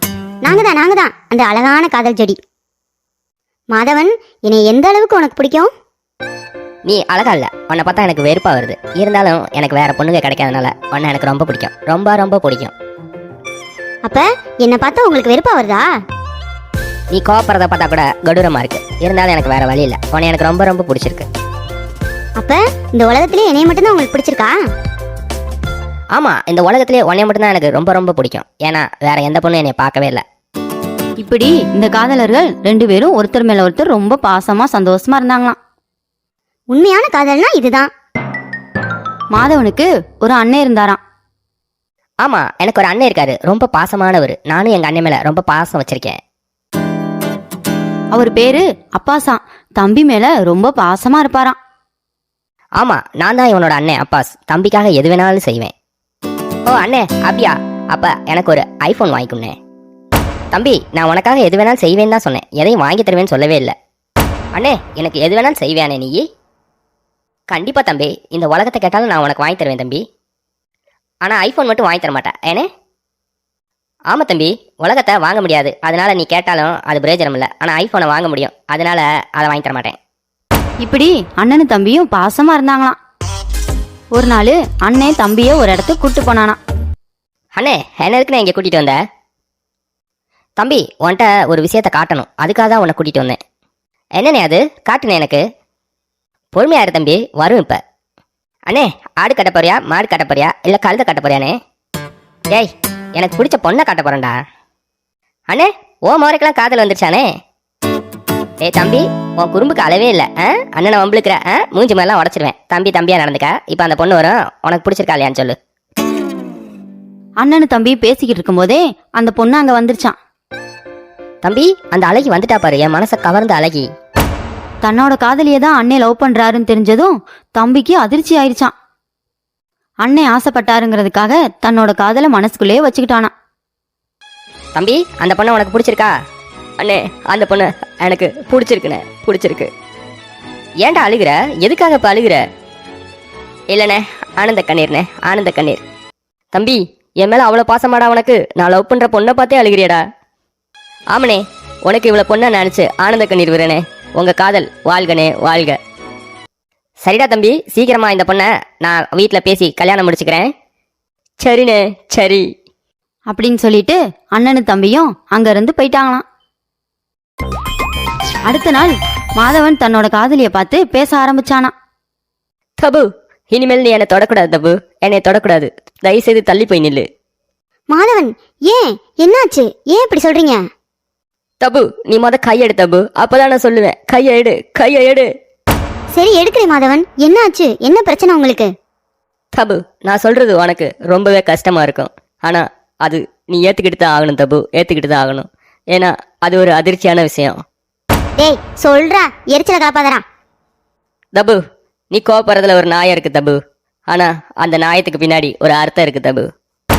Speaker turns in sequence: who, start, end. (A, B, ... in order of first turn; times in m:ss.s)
0:00.4-0:02.4 A
0:03.7-0:05.7 A
0:06.9-0:12.7 B
0:14.1-0:15.8 A
0:17.1-0:21.3 B
0:22.4-0:24.5 A
0:26.1-0:30.2 B
0:31.2-0:35.6 C
0:36.7-0:37.9 A
0:39.3-0:41.0 C
0:42.2-0:46.2 B
0:48.1-0:51.6 C
0:52.8-0:55.7 B
0:56.7-0:59.5 B
1:00.5-1:03.7 B
1:04.5-1:06.2 B
1:07.5-1:10.0 B
1:11.2-1:12.7 B
1:14.1-1:20.0 B
1:20.8-1:23.0 C
1:24.1-1:26.6 C
1:27.6-1:29.0 B
1:30.6-1:33.4 B
1:34.2-1:35.4 B
1:36.5-1:37.8 B
1:38.7-1:41.6 B
1:42.5-1:44.4 B
1:45.5-1:47.3 B
1:48.6-1:55.6 B
1:57.4-2:00.2 C
2:01.4-2:03.9 B
2:04.8-2:08.7 C
2:10.0-2:13.3 C
2:14.7-2:16.1 B
2:16.8-2:19.7 B
2:20.8-2:22.4 B
2:23.7-2:25.8 B
2:26.5-2:30.0 B
2:31.1-2:35.8 B
2:37.0-2:40.5 B
2:41.4-2:42.5 B
2:43.3-2:46.2 C
2:48.5-2:51.7 C
2:52.8-2:57.1 B
2:57.9-3:00.6 A
3:01.6-3:05.3 B
3:06.1-3:08.7 A
3:09.6-3:17.6 B
3:18.4-3:20.2 A
3:21.3-3:21.6 B
3:22.1-3:23.6 B
3:24.1-3:26.5 B